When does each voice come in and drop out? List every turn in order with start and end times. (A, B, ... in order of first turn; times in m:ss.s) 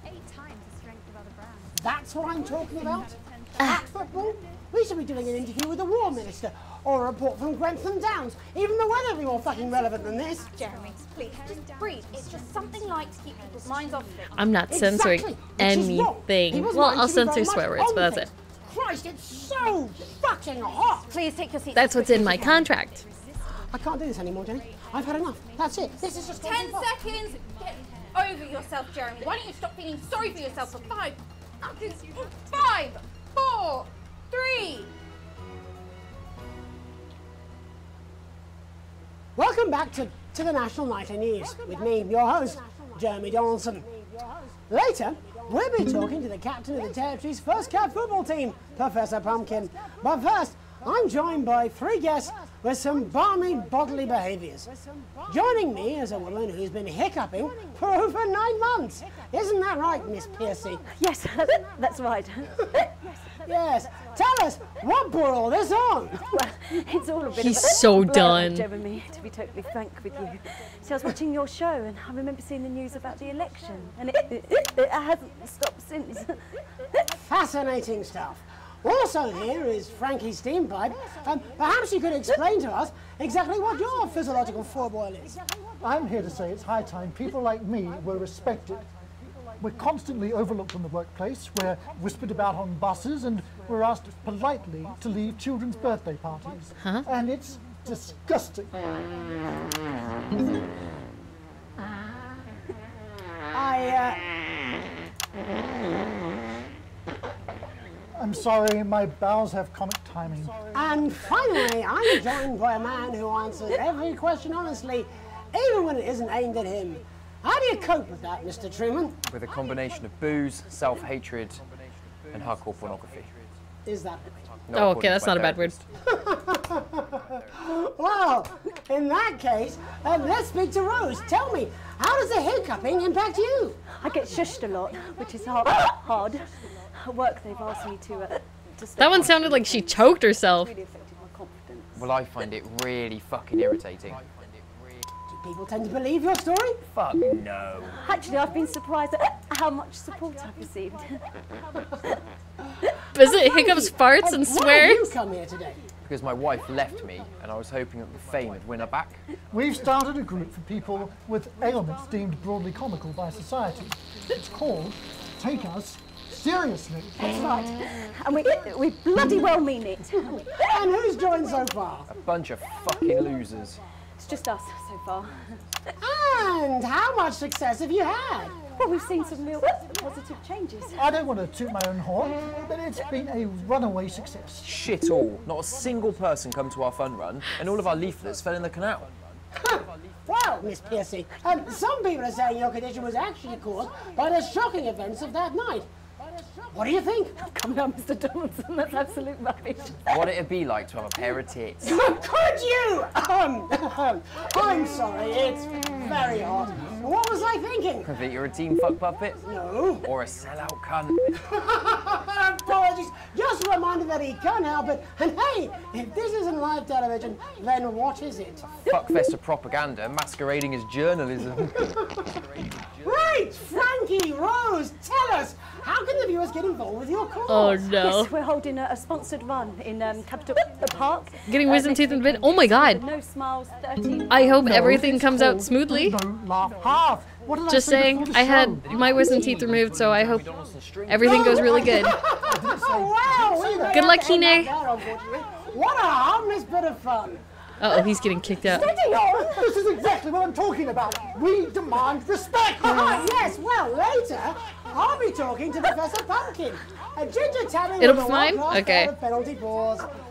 0:01.8-0:10.5 A
0:03.6-0:03.8 B
0:10.4-0:14.4 C
0:14.4-0:18.3 B
0:14.7-0:21.1 A
0:21.1-0:22.7 C
0:21.7-0:23.0 B
0:23.5-0:26.9 A
0:26.3-0:34.9 C
0:39.4-0:44.0 A
0:44.7-0:54.7 A
0:55.3-1:00.8 A
1:00.9-1:02.9 D
1:03.4-1:06.2 A
1:06.3-1:16.4 D
1:07.4-1:08.7 B
1:17.2-1:25.4 A
1:25.8-1:28.9 E
1:29.6-1:38.9 E
1:43.5-1:44.3 A
1:48.2-1:50.7 E
1:50.7-1:59.2 A
1:59.2-2:01.6 F
2:02.3-2:03.3 F
2:03.9-2:04.4 A
2:04.7-2:05.8 F
2:04.8-2:05.8 B
2:06.1-2:13.8 A
2:13.9-2:22.0 D
2:19.0-2:20.7 B
2:22.0-2:24.7 F
2:25.3-2:26.8 A
2:26.9-2:28.1 F
2:27.9-2:31.2 D
2:33.1-2:35.1 B
2:33.2-2:35.8 A
2:36.0-2:39.2 F
2:39.5-2:47.4 E
2:47.2-2:50.7 D
2:50.5-2:52.1 A
2:52.1-2:53.8 F
2:54.2-2:55.6 D
2:56.0-2:58.6 A
2:58.8-3:01.0 D
3:01.0-3:04.6 E
3:04.6-3:09.1 F
3:09.6-3:15.9 A
3:16.7-3:17.4 A
3:17.4-3:20.2 D
3:20.1-3:22.0 F
3:21.8-3:28.1 A
3:28.0-3:29.4 F
3:29.4-3:30.1 A
3:30.0-3:31.2 F
3:31.5-3:38.6 A
3:38.9-3:43.1 F
3:43.0-3:47.9 A
3:47.5-3:48.3 B
3:47.9-3:54.6 D
3:51.5-3:53.0 B
3:54.3-3:56.2 B
3:54.6-3:58.9 E
3:57.7-4:00.5 B
3:58.8-4:01.4 F
4:01.1-4:02.2 B
4:01.3-4:07.4 A
4:01.3-4:04.1 E
4:03.9-4:04.7 B
4:07.8-4:08.9 B
4:08.7-4:09.0 C
4:08.7-4:13.4 E
4:12.8-4:20.0 A
4:18.0-4:19.1 B